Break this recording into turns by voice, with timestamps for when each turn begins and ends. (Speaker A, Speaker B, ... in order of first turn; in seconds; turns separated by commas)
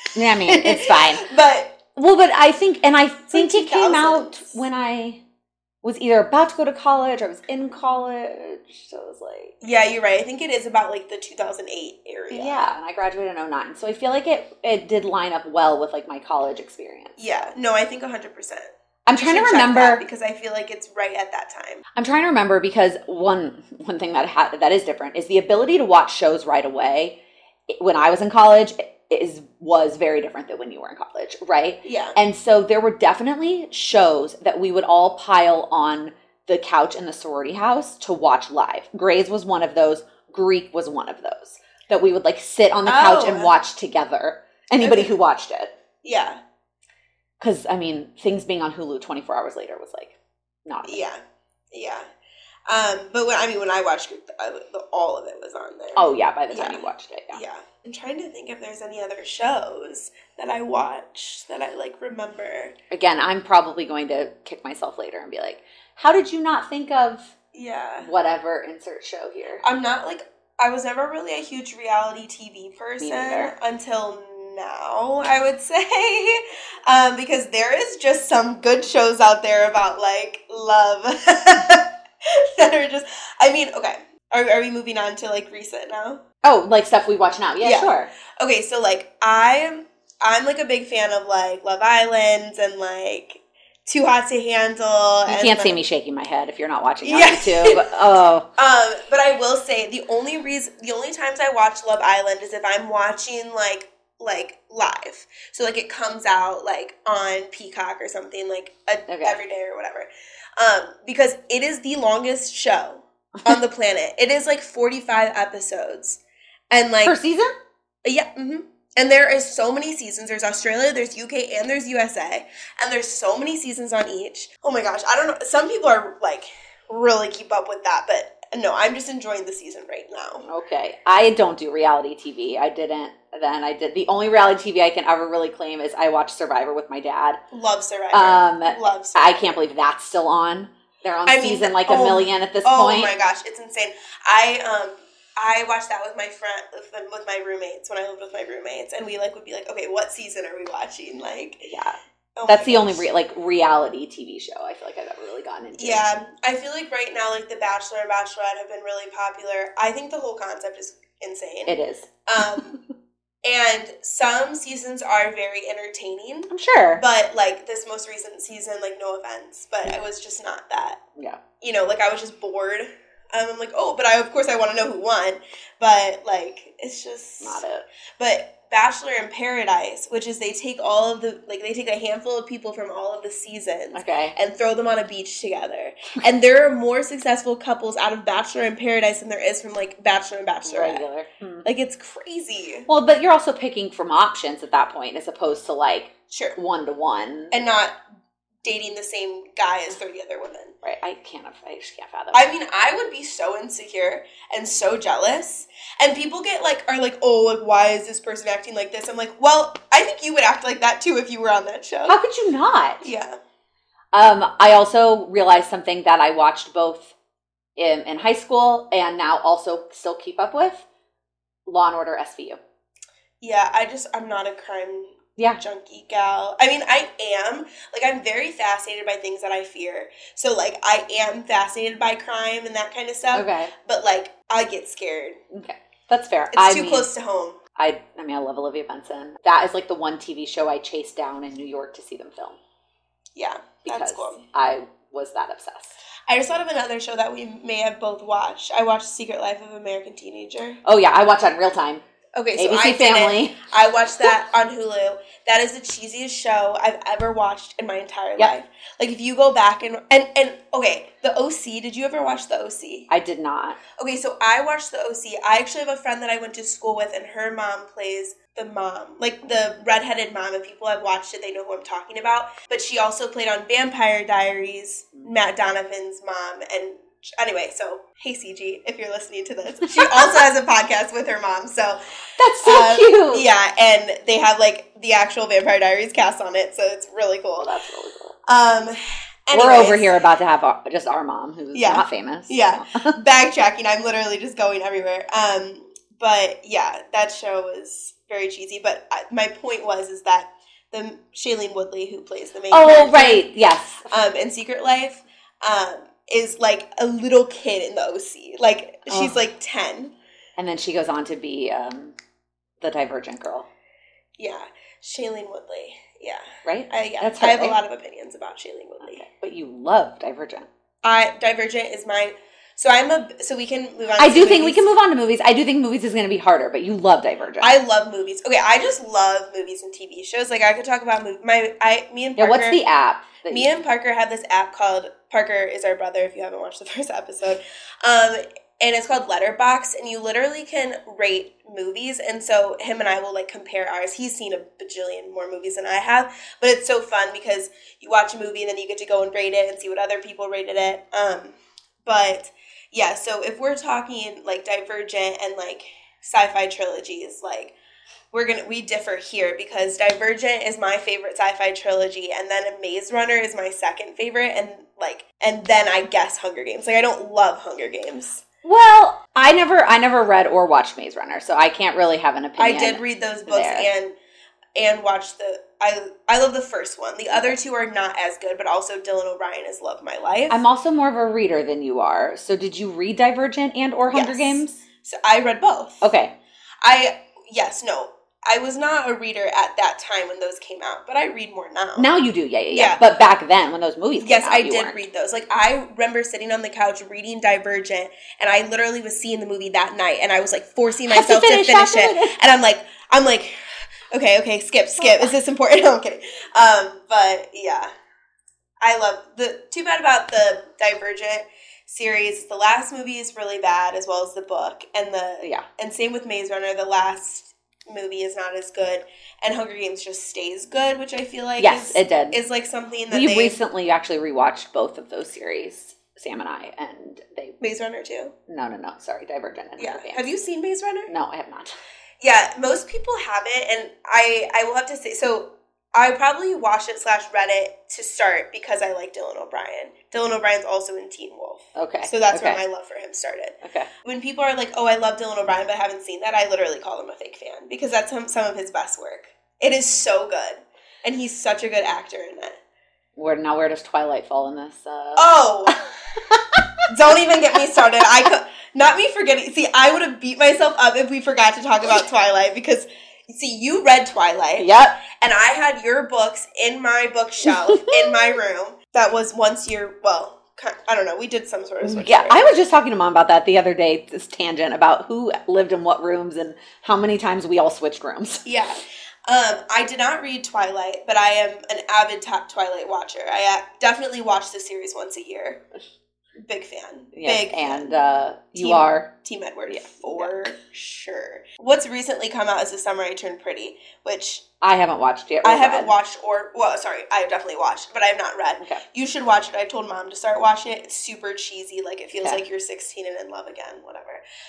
Speaker A: 0.1-1.3, Speaker B: 0.4-1.8, Speaker A: 1.9-5.2, Speaker B: 3.3-4.5, Speaker A: 5.8-9.6, Speaker B: 9.6-12.7, Speaker A: 12.3-17.2, Speaker B: 17.2-21.8, Speaker A: 19.1-20.0, Speaker A: 22.0-27.2, Speaker A: 27.7-45.7, Speaker B: 31.8-32.2, Speaker B: 42.9-43.5, Speaker B: 44.8-45.1, Speaker B: 46.0-46.4, Speaker A: 47.4-51.0, Speaker B: 50.9-51.2, Speaker B: 51.7-52.0, Speaker B: 52.7-62.8, Speaker A: 56.0-57.4, Speaker A: 62.9-67.3, Speaker B: 67.5-68.1, Speaker A: 68.0-69.6, Speaker B: 69.6-86.2, Speaker A: 73.0-73.5, Speaker A: 86.4-88.1, Speaker B: 87.6-95.8, Speaker A: 95.3-98.5, Speaker B: 97.0-97.8, Speaker B: 98.6-116.2, Speaker A: 109.1-109.4, Speaker B: 116.7-117.1, Speaker A: 117.0-117.5, Speaker B: 118.0-130.4, Speaker A: 130.4-137.4, Speaker B: 137.5-139.6, Speaker A: 138.1-143.1, Speaker B: 141.2-151.7, Speaker A: 151.7-156.0, Speaker B: 152.4-153.1, Speaker B: 155.8-161.7, Speaker A: 161.7-162.1, Speaker B: 162.2-162.8, Speaker B: 163.4-171.0, Speaker A: 166.5-167.0, Speaker B: 171.6-177.6, Speaker A: 177.4-177.8, Speaker B: 178.2-191.0, Speaker A: 183.9-184.3, Speaker A: 190.7-191.7, Speaker B: 191.6-192.9, Speaker A: 192.9-197.5, Speaker B: 196.3-196.6, Speaker B: 197.5-198.0, Speaker B: 198.6-200.7, Speaker A: 200.8-202.5, Speaker B: 202.3-212.2, Speaker A: 212.1-213.1, Speaker B: 213.0-213.4, Speaker A: 214.1-217.1, Speaker A: 217.8-220.8, Speaker A: 221.7-222.6, Speaker B: 223.4-235.4, Speaker A: 233.3-233.7, Speaker A: 235.5-237.1, Speaker B: 236.5-237.6, Speaker A: 237.8-242.6, Speaker B: 243.3-244.4, Speaker A: 243.9-246.0, Speaker B: 246.3-250.8, Speaker A: 250.8-252.0, Speaker B: 252.3-263.1, Speaker A: 252.5-253.6, Speaker A: 263.1-263.8, Speaker B: 264.0-282.0, Speaker A: 282.4-283.4, Speaker B: 282.6-287.7, Speaker A: 287.6-288.4, Speaker B: 288.5-290.1, Speaker A: 289.5-293.2, Speaker B: 291.7-303.4, Speaker A: 302.7-304.2, Speaker B: 304.1-310.1, Speaker A: 309.1-309.4, Speaker A: 310.6-312.1, Speaker A: 312.8-313.7, Speaker B: 314.4-319.2, Speaker A: 316.6-317.8, Speaker A: 319.0-320.7, Speaker B: 321.0-324.8, Speaker A: 324.2-327.8, Speaker B: 327.6-332.8, Speaker A: 332.4-333.7, Speaker B: 333.5-357.8, Speaker B: 358.3-368.4, Speaker A: 368.6-373.9, Speaker B: 372.6-374.1, Speaker B: 374.8-380.6, Speaker A: 377.3-377.6, Speaker A: 380.5-384.8, Speaker B: 384.1-386.0, Speaker A: 386.0-386.3, Speaker B: 386.8-392.1, Speaker A: 392.0-395.0, Speaker B: 392.7-393.0, Speaker B: 394.2-403.5, Speaker A: 401.1-402.4, Speaker B: 404.1-407.9, Speaker A: 405.0-405.3, Speaker B: 408.8-423.6, Speaker A: 421.6-422.4, Speaker A: 423.1-427.6, Speaker B: 427.6-428.3, Speaker A: 428.5-430.2, Speaker B: 429.8-431.1, Speaker A: 431.1-431.7, Speaker B: 432.2-452.6, Speaker A: 441.8-442.6, Speaker A: 443.6-443.9, Speaker A: 453.1-455.7, Speaker B: 455.1-455.8, Speaker A: 456.2-456.9, Speaker B: 456.9-472.5, Speaker A: 464.6-465.0, Speaker A: 467.6-468.0, Speaker A: 471.8-478.5, Speaker B: 478.4-485.6, Speaker B: 486.4-487.9, Speaker A: 487.1-489.1, Speaker B: 488.6-494.4, Speaker A: 489.7-490.4, Speaker A: 494.6-495.9, Speaker B: 495.4-504.2